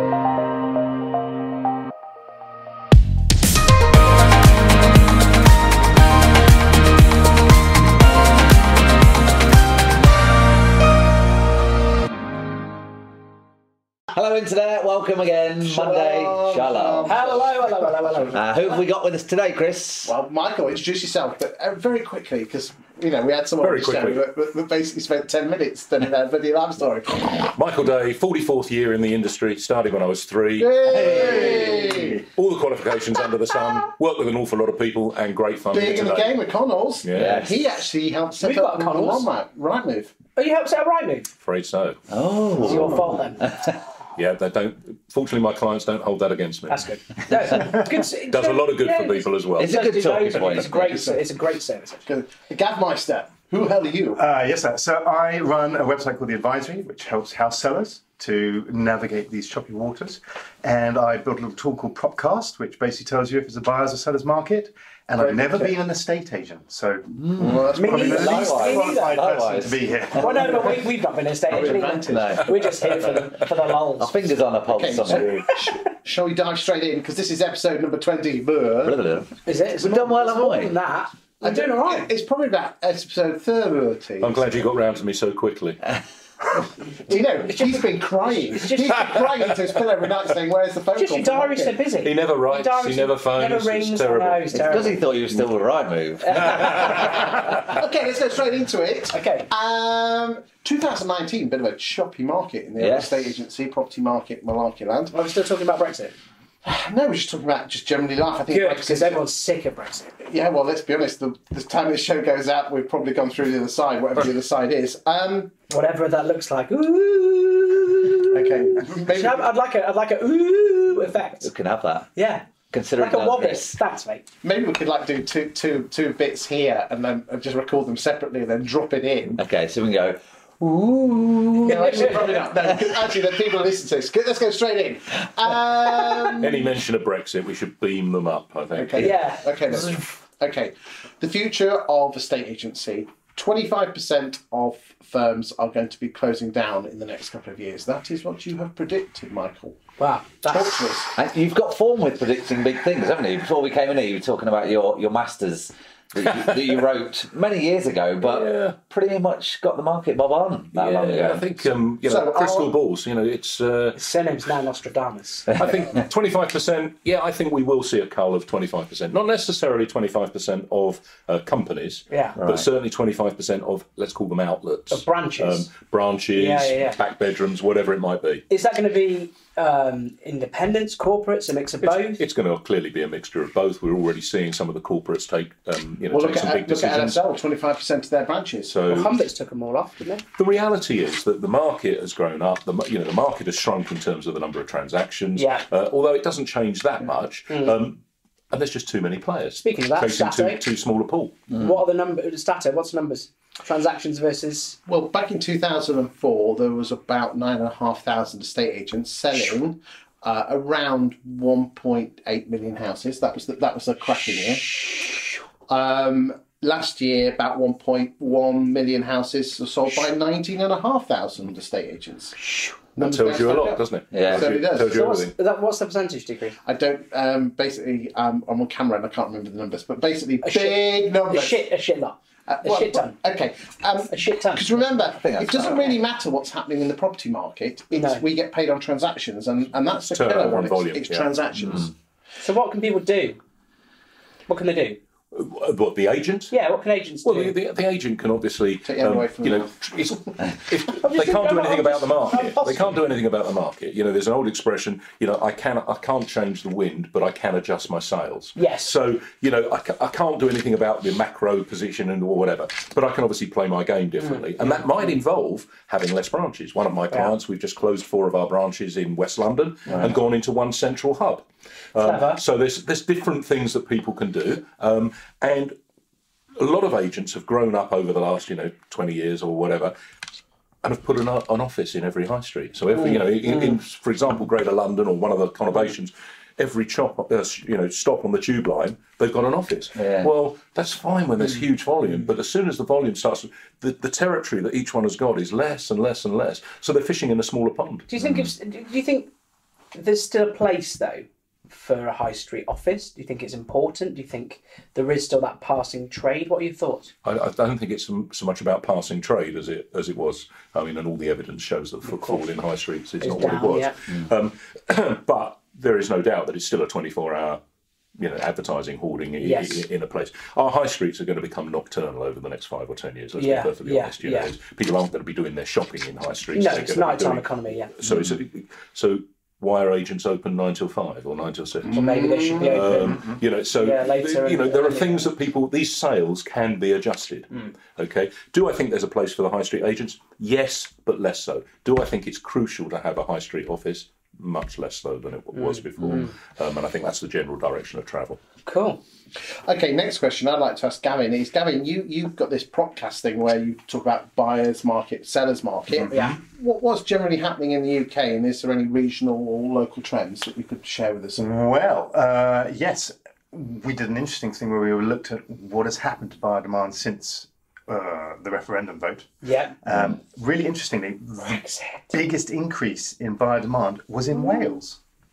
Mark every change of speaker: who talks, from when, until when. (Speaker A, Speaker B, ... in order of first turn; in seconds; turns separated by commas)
Speaker A: 14.1-17.3, Speaker B: 15.6-18.3, Speaker C: 17.1-18.4, Speaker A: 18.3-20.1, Speaker B: 20.0-27.5, Speaker D: 23.6-24.2, Speaker D: 27.5-31.6, Speaker B: 30.6-32.3, Speaker A: 31.0-31.7, Speaker D: 32.4-36.4, Speaker B: 35.7-40.1, Speaker D: 37.0-37.4, Speaker A: 37.1-37.7, Speaker C: 38.4-39.3, Speaker C: 40.4-41.3, Speaker D: 41.4-42.0, Speaker A: 42.1-43.8, Speaker B: 42.6-43.2, Speaker C: 42.6-43.5, Speaker D: 44.2-46.8, Speaker C: 46.7-52.1, Speaker D: 47.6-49.7, Speaker A: 49.6-51.0, Speaker B: 50.4-51.2, Speaker B: 52.1-54.2, Speaker E: 54.1-70.7, Speaker B: 65.2-65.6, Speaker A: 67.2-69.8, Speaker B: 67.4-69.0, Speaker C: 67.7-69.2, Speaker C: 70.2-74.2, Speaker B: 70.2-70.8, Speaker B: 71.5-73.2, Speaker A: 72.0-72.9, Speaker A: 74.0-75.5, Speaker B: 74.7-79.0, Speaker A: 78.8-80.7, Speaker C: 79.5-82.1, Speaker B: 81.4-84.7, Speaker D: 84.2-85.9, Speaker B: 87.1-91.8, Speaker C: 87.5-89.1, Speaker C: 91.0-95.0, Speaker D: 92.0-94.7, Speaker A: 94.5-97.1, Speaker C: 96.2-96.9, Speaker B: 96.8-105.2, Speaker C: 99.1-99.5, Speaker A: 102.8-103.3, Speaker C: 105.1-106.2, Speaker B: 106.6-109.2, Speaker C: 108.5-110.1, Speaker B: 110.2-115.5, Speaker C: 115.7-121.5, Speaker B: 118.3-119.5, Speaker A: 121.4-122.1, Speaker C: 122.2-124.2, Speaker A: 122.7-123.8, Speaker B: 124.4-129.4, Speaker A: 129.4-133.0, Speaker B: 131.6-136.7, Speaker C: 131.7-132.5, Speaker D: 136.4-139.2, Speaker B: 138.7-149.8, Speaker C: 139.0-139.4, Speaker C: 150.0-150.8, Speaker B: 150.5-151.1, Speaker A: 151.2-161.5, Speaker D: 158.2-158.8, Speaker D: 160.7-164.0, Speaker B: 162.1-162.7, Speaker C: 164.0-165.7, Speaker A: 165.5-165.8, Speaker D: 165.6-178.4, Speaker C: 172.1-172.4, Speaker A: 172.4-172.7, Speaker C: 174.9-175.7, Speaker C: 176.3-177.0, Speaker C: 178.5-182.2, Speaker D: 181.8-187.2, Speaker B: 186.1-188.8, Speaker D: 188.7-189.1, Speaker C: 188.9-190.2, Speaker D: 190.4-201.5, Speaker C: 195.4-195.7, Speaker C: 197.5-197.8, Speaker C: 199.6-200.6, Speaker C: 201.5-204.8, Speaker B: 204.9-222.4, Speaker C: 222.4-222.8, Speaker B: 223.0-225.1, Speaker D: 223.0-225.3, Speaker A: 224.1-224.5, Speaker C: 224.8-226.6, Speaker B: 226.6-231.7, Speaker C: 230.4-233.2, Speaker B: 232.5-241.9, Speaker C: 234.1-235.0, Speaker A: 235.2-236.0, Speaker C: 237.9-238.2, Speaker D: 240.0-241.4, Speaker C: 242.4-243.4, Speaker C: 244.5-245.0, Speaker D: 245.3-246.6, Speaker C: 246.5-247.6, Speaker D: 247.2-275.8, Speaker B: 248.8-249.7, Speaker C: 251.0-253.1, Speaker C: 258.6-258.9, Speaker C: 264.2-264.9, Speaker C: 272.0-272.4, Speaker D: 276.6-279.9, Speaker D: 280.8-298.1, Speaker A: 290.0-290.3, Speaker C: 298.1-299.3, Speaker A: 298.2-298.5, Speaker C: 299.9-307.1, Speaker D: 307.2-317.6, Speaker C: 312.1-312.4, Speaker C: 313.2-313.9, Speaker D: 318.2-348.4, Speaker C: 319.4-319.9, Speaker C: 323.4-324.5, Speaker C: 326.5-327.9, Speaker A: 328.1-328.4, Speaker B: 331.8-333.1, Speaker C: 331.9-335.3, Speaker C: 345.5-346.3, Speaker C: 348.7-349.0, Speaker B: 349.6-361.4, Speaker C: 356.1-356.4, Speaker E: 361.4-369.3, Speaker C: 369.4-369.8, Speaker E: 369.8-375.0, Speaker C: 371.4-372.1